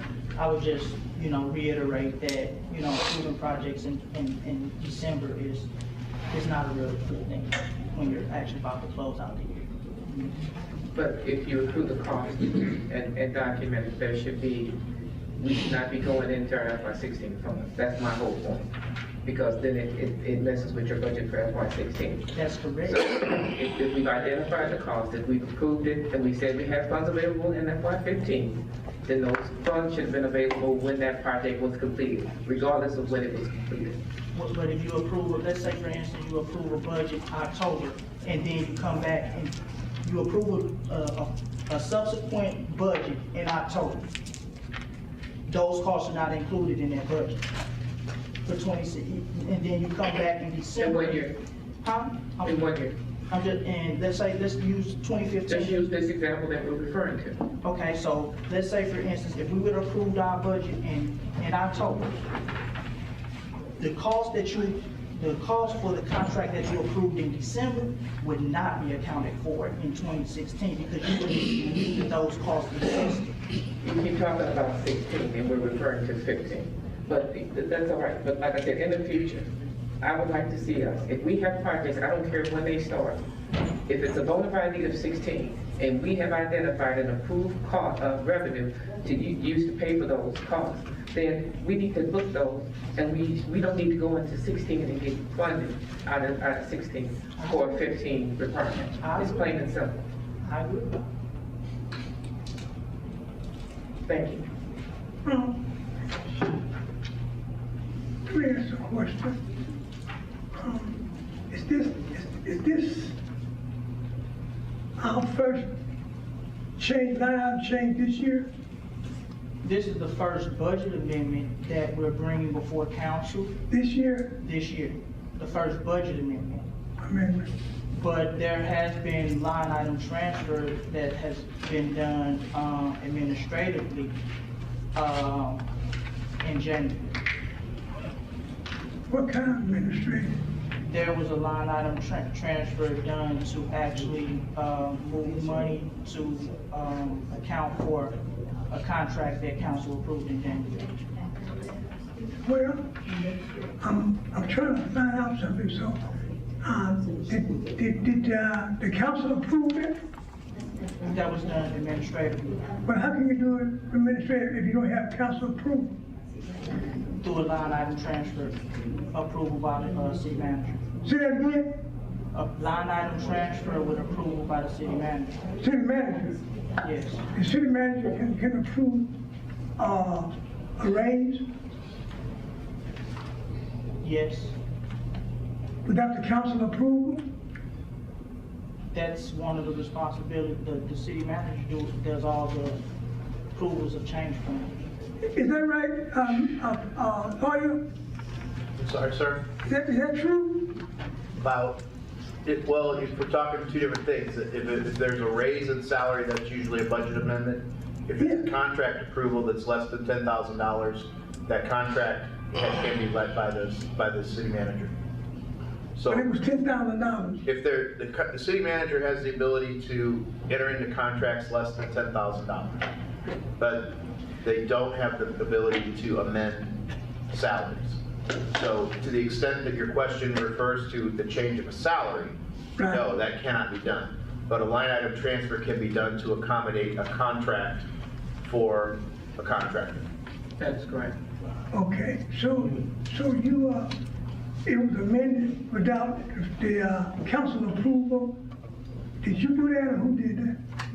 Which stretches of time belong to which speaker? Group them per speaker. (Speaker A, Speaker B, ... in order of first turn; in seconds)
Speaker A: 0.3-5.7, 6.3-10.2, 22.3-23.1, 34.3-44.1, 45.5-47.4, 48.4-51.2, 51.8-52.6, 53.3-55.8, 57.6-62.2, 63.8-73.3, 97.3-97.9, 99.0-99.5, 100.4-101.1, 119.6-123.5, 124.4-126.7, 127.9-134.1, 134.9-135.6, 136.4-137.1, 140.8-150.7, 161.0-162.6, 167.2-170.8, 172.3-175.4, 176.8-177.3, 184.0-184.6, 188.9-192.8, 193.5-194.8
Speaker B: 10.9-14.8, 15.4-18.6, 19.2-34.0, 50.8-51.4, 52.4-52.9, 55.5-57.4, 73.8-79.5, 80.0-83.2, 83.9-100.0, 104.0-104.5, 240.6-241.1
Speaker C: 105.2-105.6, 108.3-109.4, 110.5-111.0, 111.5-113.2, 115.0-115.7, 116.8-118.5, 123.7-124.3, 127.0-127.5, 139.1-140.4, 152.4-152.9, 153.8-156.0, 156.6-160.0, 162.8-165.9, 171.0-171.8, 175.6-176.4, 177.3-179.1, 179.8-181.5, 185.8-187.2, 195.2-197.9, 199.6-200.8, 216.1-217.4, 241.7-243.9, 244.6-248.4, 249.2-250.5
Speaker D: 198.8-199.4, 201.4-201.8, 202.4-214.9, 215.9-216.2, 217.4-222.9, 223.6-226.8, 227.3-237.8, 238.4-240.0